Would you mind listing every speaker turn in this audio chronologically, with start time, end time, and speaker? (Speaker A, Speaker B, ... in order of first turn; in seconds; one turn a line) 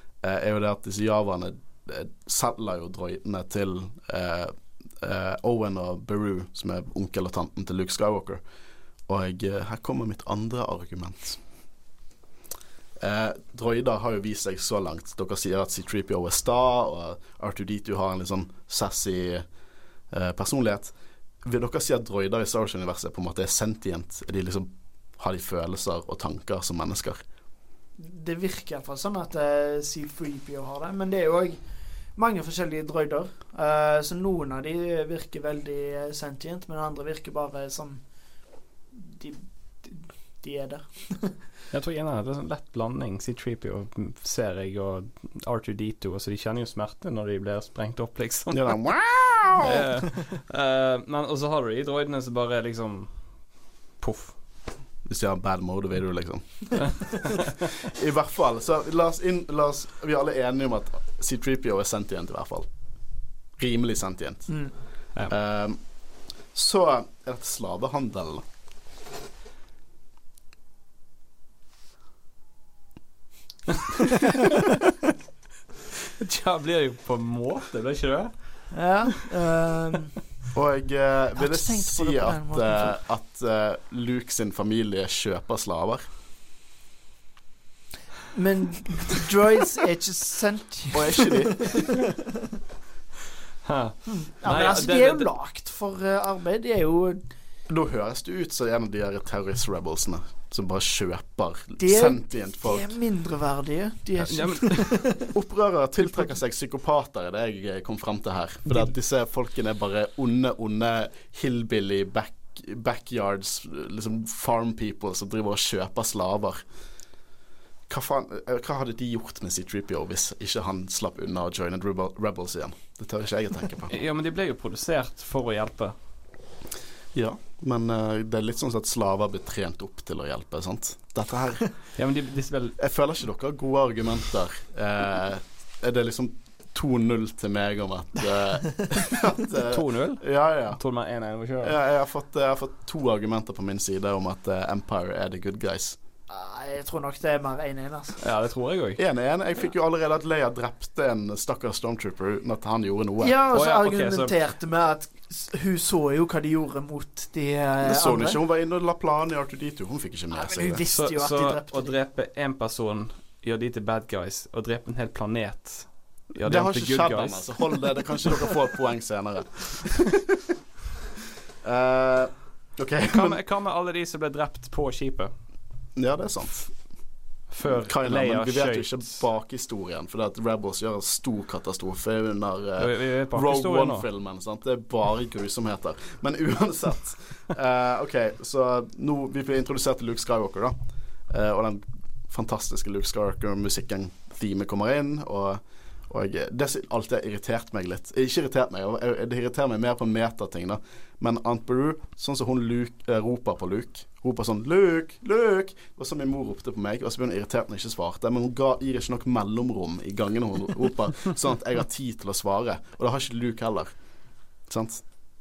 Speaker A: 0.2-8.4
Speaker A: 9.1-11.4
Speaker A: 13.0-19.4
Speaker A: 20.1-20.9
Speaker A: 21.4-27.2
Speaker B: 28.0-31.6
Speaker B: 32.1-38.0
Speaker B: 38.9-41.4
Speaker C: 41.7-48.8
Speaker A: 48.5-49.9
Speaker C: 49.6-54.4
Speaker A: 55.0-57.1
Speaker C: 56.9-57.5
Speaker A: 57.8-62.7
Speaker A: 63.6-64.7
Speaker B: 64.5-64.7
Speaker A: 65.2-65.8
Speaker A: 66.5-68.4
Speaker C: 76.2-78.7
Speaker B: 78.7-80.2
Speaker A: 80.5-86.1
Speaker B: 81.4-83.0
Speaker B: 88.3-91.8
Speaker A: 90.9-91.9
Speaker C: 93.7-95.3
Speaker B: 94.1-97.2
Speaker A: 97.7-102.9
Speaker B: 101.8-105.2
Speaker C: 104.2-105.1
Speaker A: 105.3-116.6
Speaker A: 117.9-123.9
Speaker C: 123.9-126.0
Speaker A: 127.1-131.9
Speaker C: 132.0-132.8
Speaker A: 132.8-140.8
Speaker C: 139.7-141.8
Speaker A: 141.6-146.0
Speaker B: 146.3-148.2
Speaker C: 148.2-149.0
Speaker A: 149.0-153.3
Speaker B: 153.2-158.4
Speaker C: 153.5-154.3
Speaker A: 157.8-160.8
Speaker B: 160.3-161.9
Speaker C: 160.9-167.8
Speaker A: 166.4-170.2
Speaker A: 171.6-173.4
Speaker C: 173.1-175.3
Speaker A: 176.0-176.7
Speaker C: 177.5-179.2
Speaker A: 177.7-190.8
Speaker C: 182.8-184.1
Speaker A: 191.3-213.9
Speaker A: 214.7-215.1